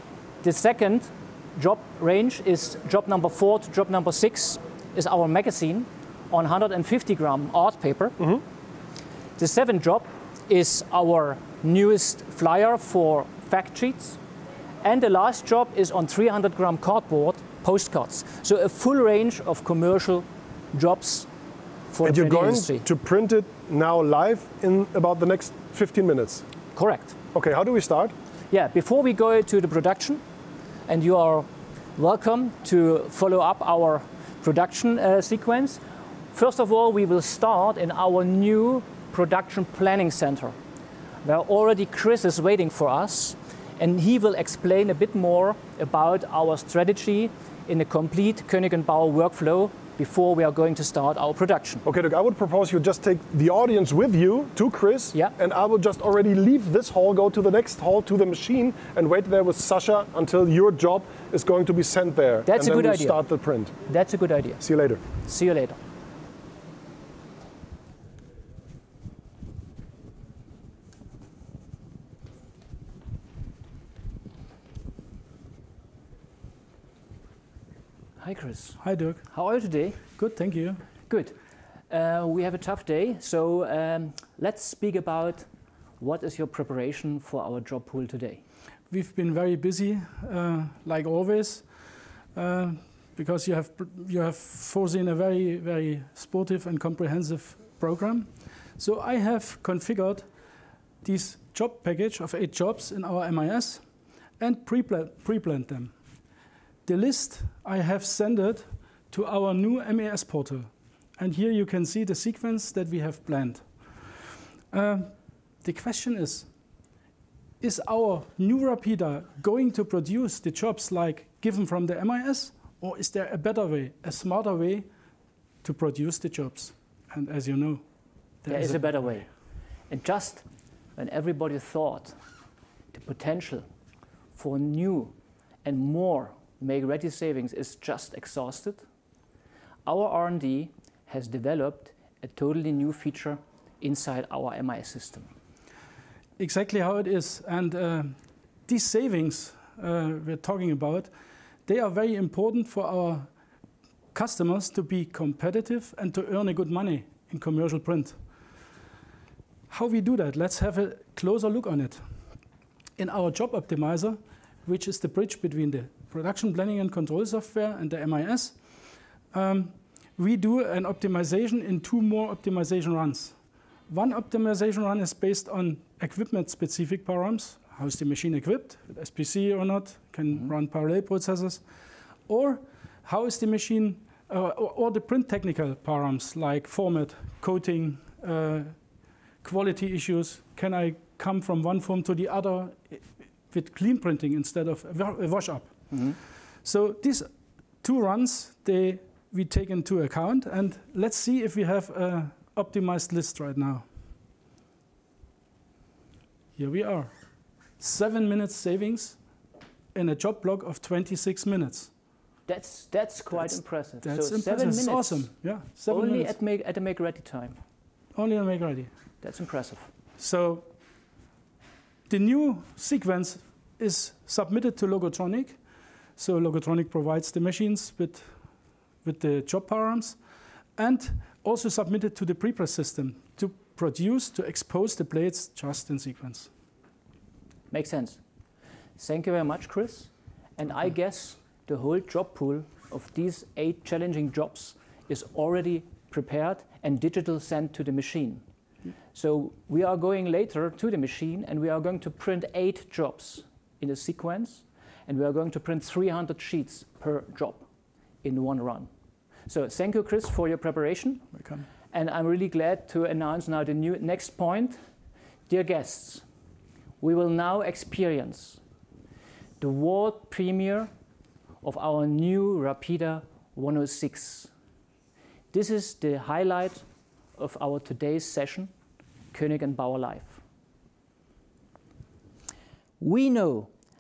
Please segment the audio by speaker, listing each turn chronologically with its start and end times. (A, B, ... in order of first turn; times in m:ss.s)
0:00.4-0:08.2 A
0:09.4-0:14.2 A
0:14.8-0:21.3 A
0:21.9-0:22.8 A
0:22.0-0:26.4 B
0:26.8-0:27.2 A
0:27.3-0:28.1 B
0:28.5-0:30.2 A
0:30.9-0:35.8 A
0:36.3-0:40.6 A
0:41.2-0:51.8 A
0:51.8-1:03.7 B
1:02.5-1:03.2 A
1:03.9-1:04.6 A
1:04.6-1:05.0 B
1:05.2-1:05.8 A
1:18.2-1:20.2 A
1:18.8-1:19.2 C
1:20.2-1:20.8 C
1:21.1-1:21.4 A
1:21.9-1:25.5 A
1:26.0-1:28.4 A
1:28.9-1:40.3 C
1:41.0-1:43.8 C
1:44.4-1:46.0 C
1:46.9-1:56.5 C
1:57.6-2:04.9 C
2:05.6-2:07.8 C
2:08.4-2:09.2 C
2:08.5-2:09.3 A
2:09.9-2:10.4 A
2:11.0-2:12.2 A
2:12.9-2:13.7 A
2:14.4-2:15.1 A
2:15.6-2:18.8 A
2:19.9-2:25.3 A
2:26.4-2:31.1 C
2:31.7-2:33.3 C
2:34.1-2:38.2 C
2:39.7-2:42.2 C
2:43.0-2:48.6 C
2:49.3-3:01.6 C
3:02.3-3:08.9 C
3:09.4-3:15.9 C
3:15.9-3:16.2 A
3:16.6-3:23.9 C
3:26.6-3:27.2 C
3:27.8-3:29.2 C
3:29.9-3:31.9 C
3:32.5-3:35.3 A
3:33.4-3:36.3 C
3:35.9-3:37.6 A
3:38.2-3:38.9 C
3:39.2-3:39.9 A
3:40.2-3:40.7 C
3:42.1-3:45.6 C
3:46.2-3:48.3 C
3:49.0-3:50.2 C
3:50.8-3:56.5 C
3:57.7-3:58.2 A
3:59.0-4:08.4 A
4:09.2-4:17.6 A
4:18.2-4:18.9 A
4:19.5-4:21.3 A
4:21.3-4:21.7 C
4:21.9-4:24.8 A
4:25.5-4:26.2 A
4:27.0-4:28.6 A
4:29.6-4:30.9 A
4:31.6-4:34.5 A
4:35.5-4:36.8 A
4:37.4-4:38.7 A
4:39.3-4:40.4 A
4:43.0-4:43.7 A